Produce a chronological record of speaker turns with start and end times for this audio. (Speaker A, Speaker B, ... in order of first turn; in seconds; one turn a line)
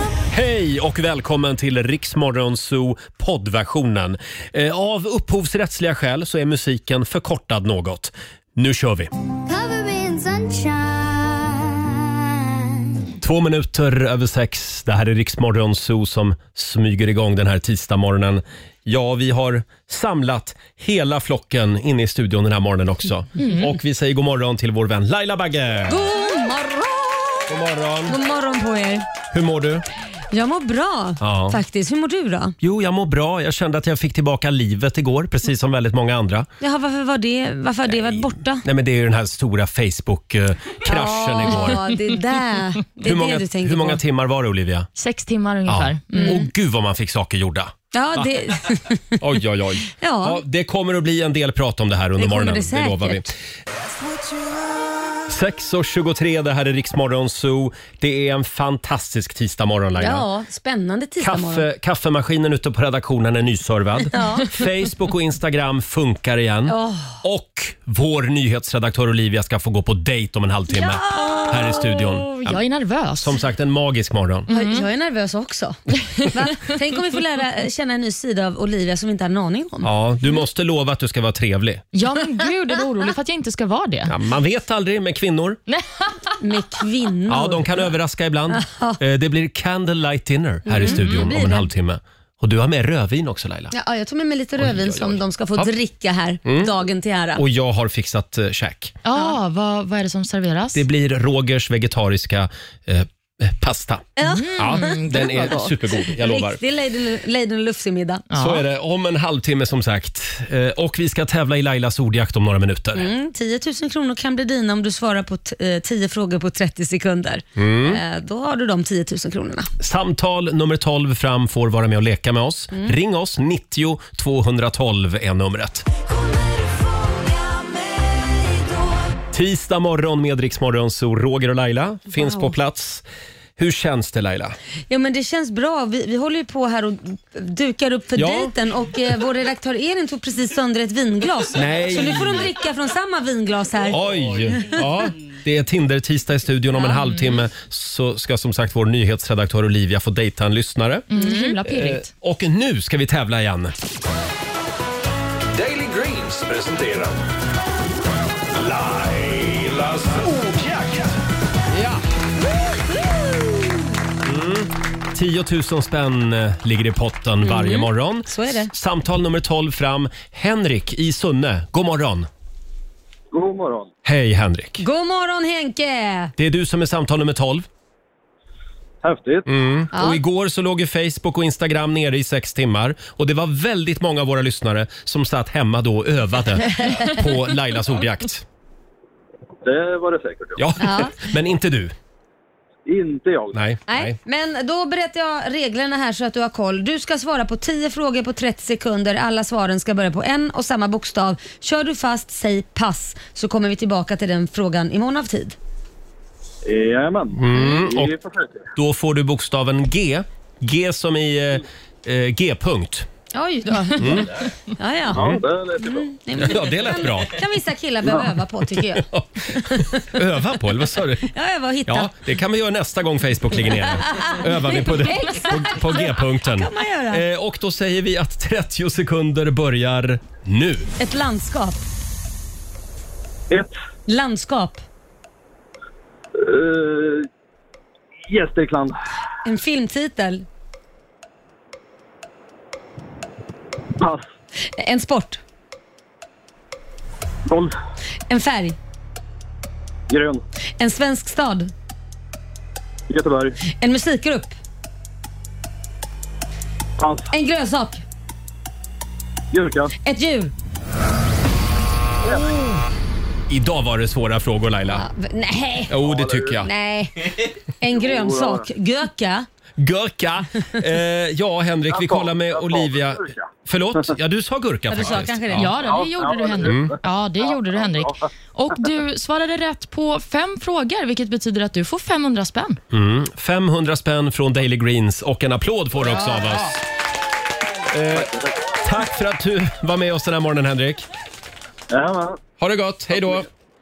Speaker A: 0.3-9.1
Speaker B: 9.5-11.7
Speaker A: 13.2-26.1
Speaker C: 23.4-23.7
Speaker D: 25.9-27.5
Speaker A: 27.5-28.2
Speaker D: 28.1-29.1
Speaker A: 29.3-29.9
Speaker D: 30.3-32.6
Speaker A: 31.2-31.6
Speaker A: 32.6-36.5
Speaker D: 36.6-38.7
Speaker A: 38.0-41.9
Speaker D: 40.9-44.0
Speaker A: 43.0-44.9
Speaker C: 45.0-46.4
Speaker A: 45.7-48.6
Speaker D: 46.1-46.5
Speaker D: 47.9-49.2
Speaker A: 49.2-53.3
Speaker D: 49.9-50.4
Speaker D: 52.2-53.2
Speaker A: 55.3-60.3
Speaker D: 60.0-61.7
Speaker A: 61.2-72.6
Speaker D: 64.1-64.6
Speaker D: 66.7-67.2
Speaker D: 70.7-72.1
Speaker C: 72.2-73.3
Speaker A: 73.2-74.5
Speaker C: 74.5-74.9
Speaker D: 74.5-79.9
Speaker A: 79.8-81.8
Speaker C: 81.9-84.2
Speaker A: 84.1-85.6
Speaker C: 85.7-86.2
Speaker D: 86.4-87.9
Speaker A: 87.3-93.7
Speaker D: 88.5-89.0
Speaker D: 90.7-91.7
Speaker C: 90.7-91.3
Speaker D: 93.7-97.4
Speaker A: 94.6-95.7
Speaker A: 96.5-96.7
Speaker A: 97.3-99.0
Speaker C: 99.0-100.8
Speaker A: 100.8-106.6
Speaker D: 104.2-108.3
Speaker C: 104.2-105.6
Speaker C: 108.3-108.6
Speaker A: 108.3-113.1
Speaker D: 113.0-119.7
Speaker A: 117.6-118.0
Speaker A: 119.8-125.9
Speaker D: 126.2-129.1
Speaker A: 129.3-133.1
Speaker D: 132.2-132.6
Speaker A: 133.6-134.6
Speaker D: 134.9-144.1
Speaker A: 138.2-138.6
Speaker A: 141.5-142.5
Speaker A: 143.9-151.1
Speaker C: 151.1-152.1
Speaker D: 151.1-151.6
Speaker A: 151.6-153.8
Speaker E: 155.5-157.2
Speaker E: 158.5-161.2
Speaker A: 164.2-172.3
Speaker D: 167.4-168.7
Speaker F: 173.3-173.9
Speaker A: 174.1-174.8
Speaker D: 174.8-176.3
Speaker A: 176.4-177.7
Speaker F: 179.0-179.5
Speaker A: 179.5-188.5
Speaker D: 179.9-180.2
Speaker F: 189.6-190.6
Speaker A: 190.6-191.9
Speaker D: 190.8-191.1
Speaker F: 192.9-193.6
Speaker A: 193.5-194.2
Speaker D: 193.9-205.6
Speaker F: 206.7-208.7
Speaker A: 207.4-208.1
Speaker A: 208.8-213.1
Speaker D: 213.3-215.2
Speaker A: 214.0-214.4
Speaker A: 215.1-215.4
Speaker F: 215.1-216.1
Speaker D: 215.8-220.2
Speaker A: 216.4-217.4
Speaker A: 218.7-221.3
Speaker D: 221.3-222.1
Speaker A: 221.9-230.9
Speaker D: 224.1-227.3
Speaker D: 231.0-231.8
Speaker D: 234.1-234.8
Speaker F: 236.4-237.3
Speaker F: 238.3-238.9
Speaker D: 239.4-240.4
Speaker F: 244.0-244.3
Speaker D: 244.7-245.4
Speaker F: 247.5-247.8
Speaker D: 248.3-248.8
Speaker F: 250.1-250.4
Speaker D: 250.8-251.7
Speaker F: 253.1-253.6
Speaker D: 253.8-254.6
Speaker F: 257.0-257.3
Speaker D: 257.3-258.0
Speaker F: 259.5-259.9
Speaker D: 260.0-260.5
Speaker A: 263.5-265.1
Speaker D: 264.9-266.1
Speaker A: 265.9-266.7
Speaker F: 266.1-266.5
Speaker D: 266.6-269.5
Speaker F: 267.9-268.6
Speaker A: 269.8-275.7
Speaker F: 271.9-273.5
Speaker D: 274.9-275.9
Speaker C: 275.6-282.8
Speaker F: 275.8-277.0
Speaker A: 276.6-276.9
Speaker F: 277.5-278.0
Speaker A: 282.9-286.8
Speaker A: 287.9-291.1
Speaker F: 288.1-288.7
Speaker F: 291.9-292.4
Speaker A: 292.6-293.5